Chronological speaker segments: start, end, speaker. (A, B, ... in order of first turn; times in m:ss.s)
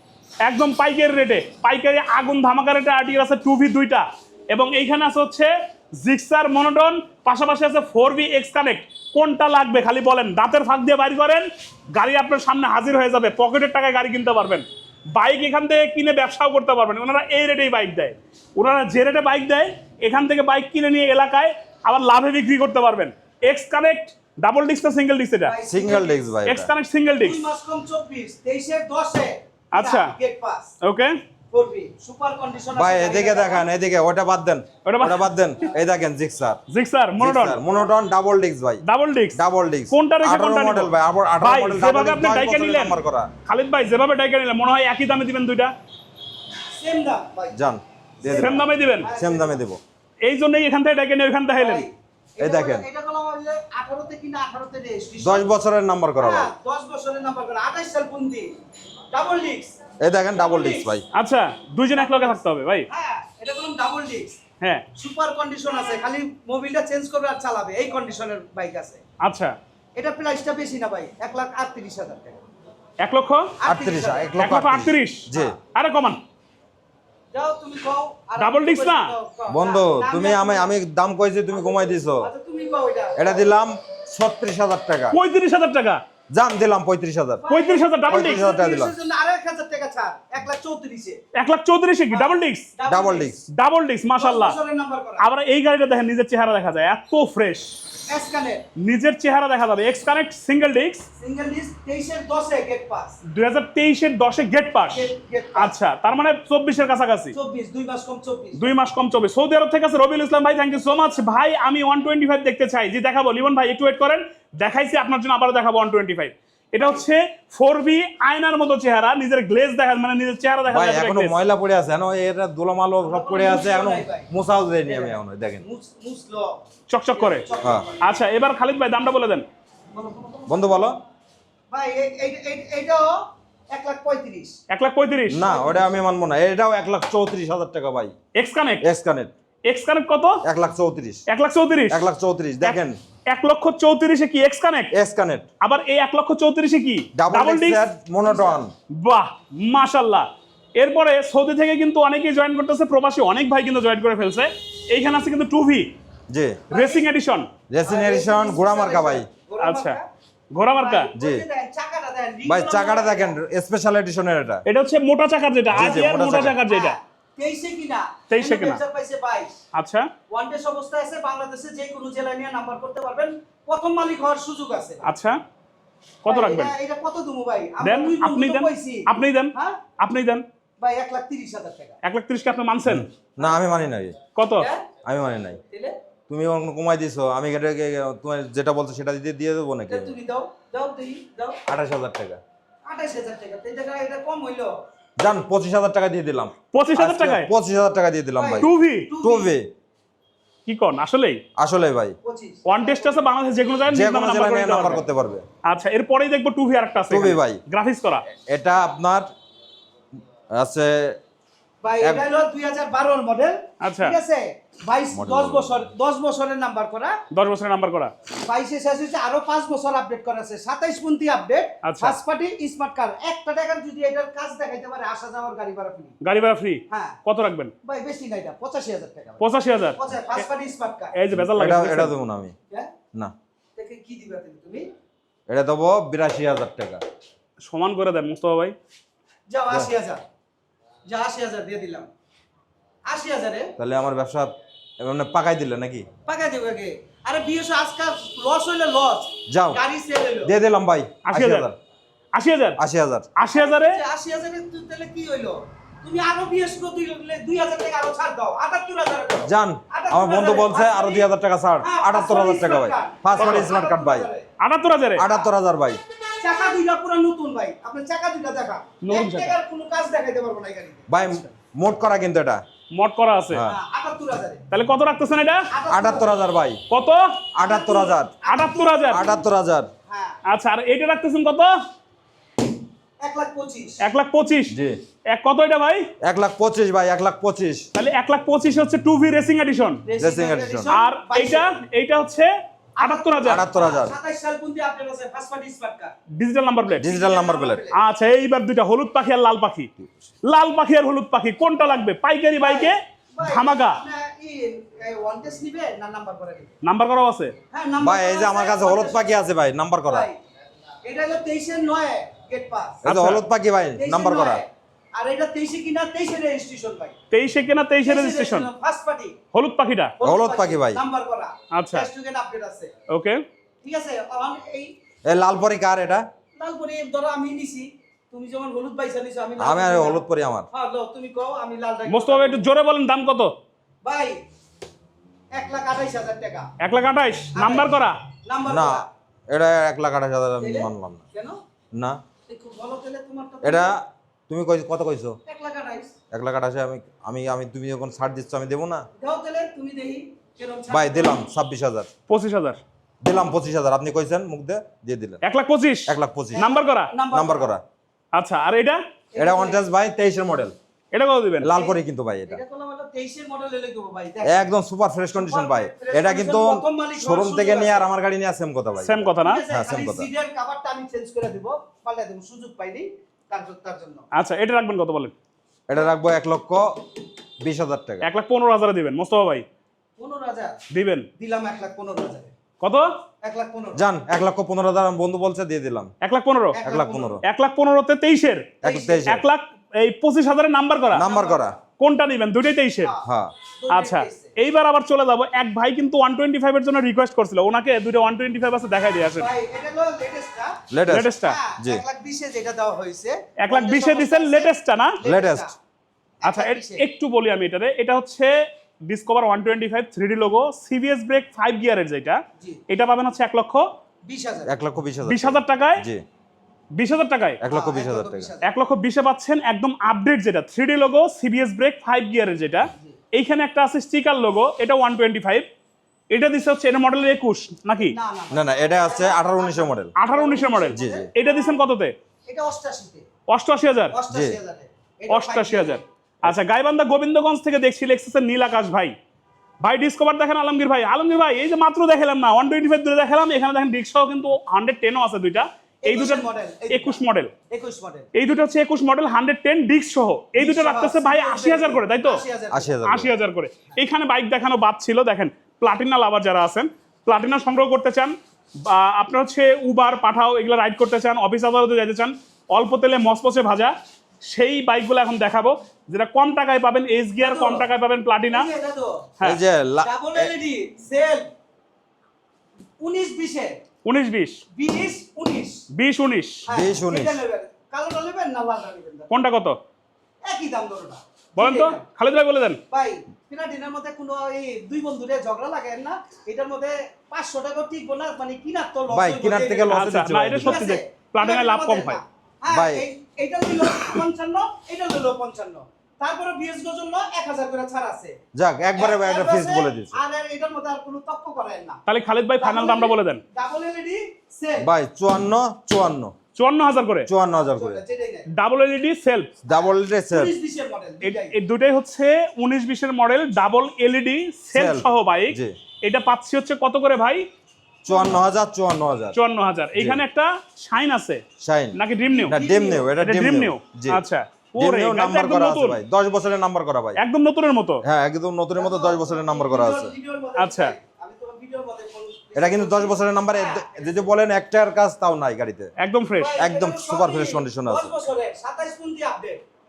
0:00.4-0:25.6 A
0:25.4-0:26.4 B
0:25.7-0:26.7 C
0:26.4-0:27.4 A
0:27.2-0:30.7 B
0:29.7-0:30.1 A
0:30.8-0:31.2 A
0:31.5-0:33.7 B
0:32.8-0:36.6 C
0:34.8-0:35.3 A
0:36.7-0:37.6 A
0:37.2-0:38.8 C
0:38.8-0:45.7 A
0:39.3-0:43.3 C
0:46.7-0:47.6 B
0:47.5-0:49.8 C
0:48.2-0:49.6 B
0:48.4-0:49.1 A
0:50.2-0:51.9 A
0:51.6-0:55.5 B
0:52.4-0:52.8 C
0:55.2-0:56.5 C
0:56.2-0:58.5 B
0:59.1-0:59.8 B
1:00.0-1:01.0 C
1:00.3-1:00.9 B
1:01.1-1:02.9 A
1:01.9-1:04.4 B
1:05.0-1:09.0 B
1:09.2-1:09.5 A
1:10.0-1:12.4 B
1:13.0-1:13.6 A
1:13.6-1:14.4 B
1:13.6-1:15.6 C
1:14.4-1:16.2 A
1:17.3-1:20.7 B
1:18.4-1:19.1 A
1:19.5-1:22.3 C
1:21.5-1:23.4 B
1:23.2-1:25.2 C
1:25.1-1:26.0 A
1:26.3-1:27.4 C
1:27.4-1:31.2 B
1:27.5-1:28.4 A
1:28.1-1:28.9 C
1:31.3-1:32.7 A
1:32.1-1:33.4 B
1:32.9-1:33.4 C
1:33.5-1:34.6 A
1:34.2-1:35.3 B
1:35.2-1:37.8 A
1:38.1-1:38.6 B
1:38.8-1:41.0 A
1:41.2-1:43.2 B
1:43.2-1:45.0 A
1:44.9-1:45.7 B
1:45.6-1:47.3 A
1:47.3-1:48.7 B
1:48.6-2:01.3 A
2:00.7-2:05.6 C
2:03.0-2:04.3 B
2:04.8-2:06.6 B
2:06.9-2:07.5 A
2:07.1-2:08.0 B
2:08.0-2:09.4 A
2:09.9-2:10.7 B
2:10.5-2:11.0 C
2:11.7-2:14.6 B
2:14.7-2:15.4 A
2:15.3-2:18.1 C
2:15.4-2:15.9 B
2:18.4-2:18.8 A
2:18.8-2:19.3 C
2:19.6-2:20.4 A
2:20.4-2:21.2 C
2:21.3-2:22.0 A
2:21.9-2:23.0 C
2:22.6-2:24.9 A
2:24.9-2:25.5 C
2:25.6-2:27.8 A
2:27.2-2:28.7 C
2:28.2-2:28.6 B
2:28.9-2:35.9 A
2:36.3-2:36.6 C
2:36.7-2:37.0 B
2:36.7-2:37.5 A
2:37.7-2:39.3 C
2:37.8-2:40.1 B
2:39.6-2:40.0 A
2:40.5-2:41.1 A
2:40.8-2:43.4 B
2:41.2-2:41.4 C
2:42.4-2:44.6 C
2:44.6-2:47.0 A
2:45.7-2:46.6 C
2:46.1-2:49.5 B
2:48.3-2:48.8 A
2:49.7-2:50.1 A
2:50.3-2:55.1 B
2:55.0-2:55.4 A
2:56.2-2:56.7 A
2:56.2-2:59.8 B
2:57.8-3:00.4 A
3:00.8-3:02.0 B
3:02.0-3:03.1 A
3:02.8-3:04.2 C
3:04.3-3:04.7 A
3:04.6-3:04.9 B
3:05.0-3:05.6 C
3:05.7-3:06.0 B
3:06.3-3:10.1 C
3:09.9-3:11.6 B
3:11.7-3:12.4 C
3:12.8-3:14.7 B
3:15.2-3:18.7 C
3:16.7-3:17.5 A
3:18.4-3:19.5 B
3:18.6-3:19.1 A
3:19.2-3:19.7 C
3:20.6-3:21.4 A
3:21.6-3:22.2 C
3:22.2-3:23.3 B
3:22.6-3:25.0 A
3:23.9-3:25.4 C
3:25.6-3:28.2 A
3:27.1-3:27.6 C
3:28.5-3:29.3 C
3:30.5-3:31.2 C
3:31.8-3:37.2 B
3:32.0-3:32.2 C
3:33.8-3:34.2 A
3:35.1-3:35.9 C
3:37.3-3:38.1 A
3:38.4-3:46.1 B
3:41.8-3:42.2 A
3:46.2-3:47.7 A
3:46.9-3:47.2 B
3:47.8-3:49.4 B
3:49.4-3:50.0 A
3:49.9-3:51.1 B
3:51.1-3:52.1 A
3:51.3-3:52.5 C
3:53.8-3:54.9 B
3:55.5-3:57.0 C
3:57.6-3:58.7 A
3:59.5-4:00.2 B
4:01.1-4:02.1 B
4:03.0-4:03.7 B
4:03.8-4:06.1 C
4:06.2-4:10.6 B
4:09.5-4:09.8 C
4:10.4-4:11.7 C
4:11.2-4:11.7 A
4:12.3-4:12.8 A
4:12.8-4:13.3 C
4:13.4-4:14.0 A
4:13.5-4:21.3 B
4:19.4-4:24.3 C
4:21.8-4:24.5 B
4:23.4-4:23.7 A
4:24.6-4:25.2 A
4:25.2-4:26.0 C
4:25.2-4:25.5 B
4:26.4-4:31.4 B
4:29.0-4:29.5 A
4:31.1-4:32.6 C
4:32.9-4:33.6 A
4:33.5-4:33.8 C
4:33.6-4:34.6 B
4:34.7-4:35.7 A
4:35.7-4:36.3 B
4:35.9-4:36.8 C
4:36.9-4:37.3 A
4:37.5-4:38.3 C
4:37.6-4:39.4 B
4:38.4-4:39.2 A
4:39.1-4:39.9 C
4:40.1-4:40.4 B
4:40.4-4:41.7 A
4:43.2-4:44.0 B
4:44.0-4:44.7 A
4:44.7-4:45.0 C
4:45.3-4:46.1 A
4:46.2-4:47.9 C
4:47.9-4:50.0 A
4:50.0-4:51.7 B
4:50.2-4:51.0 C
4:50.9-4:53.6 A
4:53.0-4:56.1 B
4:53.4-4:54.1 C
4:56.3-4:57.1 A
4:57.0-4:57.8 C
4:57.0-4:58.0 B
4:57.9-4:59.9 A
5:00.4-5:04.0 A
5:02.6-5:06.7 B
5:06.8-5:07.5 A
5:07.7-5:09.3 B
5:08.0-5:10.3 C
5:10.1-5:10.4 B
5:11.0-5:13.0 B
5:13.0-5:14.6 C
5:13.0-5:13.4 A
5:14.0-5:17.2 B
5:17.3-5:18.7 A
5:18.0-5:19.4 B
5:19.5-5:20.2 A
5:20.2-5:22.9 B
5:20.2-5:21.0 C
5:21.7-5:22.1 A
5:23.1-5:23.4 A
5:23.8-5:24.9 B
5:25.2-5:26.2 C
5:26.6-5:30.2 B
5:29.6-5:30.7 C
5:30.7-5:32.7 B
5:32.1-5:33.5 A
5:34.0-5:34.4 B
5:35.5-5:36.7 B
5:36.8-5:38.2 A
5:37.5-5:39.1 B
5:38.7-5:41.2 C
5:40.6-5:41.6 B
5:41.9-5:42.2 C
5:42.5-5:43.9 B
5:43.6-5:45.4 C
5:45.4-5:46.1 B
5:46.3-5:49.1 C
5:49.2-5:51.4 B
5:50.9-5:52.1 C
5:52.3-5:52.8 A
5:53.2-5:55.4 C
5:55.4-5:57.1 A
5:56.1-5:56.6 C
5:56.5-5:57.7 B
5:57.3-5:57.8 C
5:58.3-5:59.0 A
5:59.3-5:59.8 B
5:59.4-6:00.8 C
6:01.1-6:01.7 A
6:01.6-6:02.6 C
6:01.7-6:04.7 B
6:04.4-6:10.3 C
6:05.3-6:08.1 B
6:09.0-6:09.6 A
6:09.4-6:14.2 B
6:14.3-6:15.3 A
6:15.9-6:17.0 C
6:17.6-6:18.3 C
6:18.2-6:19.6 A
6:20.2-6:20.8 B
6:20.9-6:21.3 A
6:21.4-6:22.5 B
6:22.8-6:23.1 A
6:23.4-6:24.0 B
6:23.9-6:26.1 C
6:26.2-6:26.8 A
6:26.7-6:27.4 B
6:26.8-6:27.4 C
6:27.4-6:31.2 A
6:28.8-6:29.4 C
6:28.9-6:29.1 B
6:31.1-6:31.7 B
6:31.1-6:31.8 C
6:32.0-6:33.1 A
6:33.0-6:34.5 B
6:33.2-6:33.5 C
6:33.9-6:39.5 A
6:39.4-6:45.8 B
6:40.9-6:42.0 C
6:41.1-6:41.6 A
6:43.6-6:45.2 A
6:45.2-6:45.7 C
6:46.4-6:47.0 B
6:46.4-6:53.9 A
6:54.2-6:54.7 B
6:54.6-6:56.2 C
6:55.3-6:56.0 A
6:57.0-6:57.6 A
6:57.6-6:58.5 C
6:57.7-6:58.7 B
6:58.6-7:05.6 A
7:02.9-7:03.2 B
7:06.3-7:08.1 A
7:08.1-7:11.3 B
7:08.5-7:10.1 C
7:10.2-7:12.1 A
7:10.9-7:11.3 C
7:12.5-7:13.3 B
7:13.5-7:14.2 A
7:14.1-7:16.1 B
7:14.3-7:14.6 C
7:15.3-7:19.1 A
7:19.8-7:27.5 A
7:26.0-7:28.3 B
7:28.3-7:32.4 A
7:30.6-7:33.0 B
7:32.7-7:33.3 C
7:33.0-7:43.9 A
7:44.4-7:48.7 A
7:47.4-7:47.9 B
7:48.5-7:49.3 B
7:49.4-7:50.5 C
7:50.0-7:51.5 B
7:53.0-7:53.8 B
7:54.0-7:54.6 A
7:54.7-7:55.8 B
7:55.9-7:56.6 A
7:56.6-7:59.4 B
7:56.7-7:57.4 C
7:59.3-7:59.8 A
8:00.4-8:02.0 B
8:01.6-8:02.8 A
8:02.9-8:10.0 B
8:09.1-8:10.9 C
8:09.9-8:12.2 A
8:10.6-8:18.4 B
8:12.7-8:13.0 C
8:18.5-8:20.2 C
8:19.0-8:22.0 B
8:22.1-8:23.4 A
8:22.6-8:24.9 B
8:24.8-8:26.3 C
8:26.6-8:27.3 A
8:27.3-8:28.0 C
8:27.7-8:28.5 B
8:28.5-8:29.5 A
8:29.6-8:30.5 C
8:29.7-8:31.5 B
8:31.2-8:37.5 A
8:34.7-8:35.7 C
8:38.0-8:39.4 C
8:38.1-8:38.5 B
8:39.3-8:41.4 A
8:40.0-8:40.2 C
8:41.6-8:44.2 C
8:42.0-8:42.6 A
8:42.3-8:43.1 B
8:43.2-8:46.0 A
8:44.8-8:47.2 C
8:47.2-8:48.0 A
8:48.0-8:50.1 C
8:48.8-8:54.2 B
8:50.6-8:50.9 A
8:52.6-8:55.9 C
8:56.0-8:56.6 A
8:56.4-8:59.6 B
8:56.6-8:58.2 C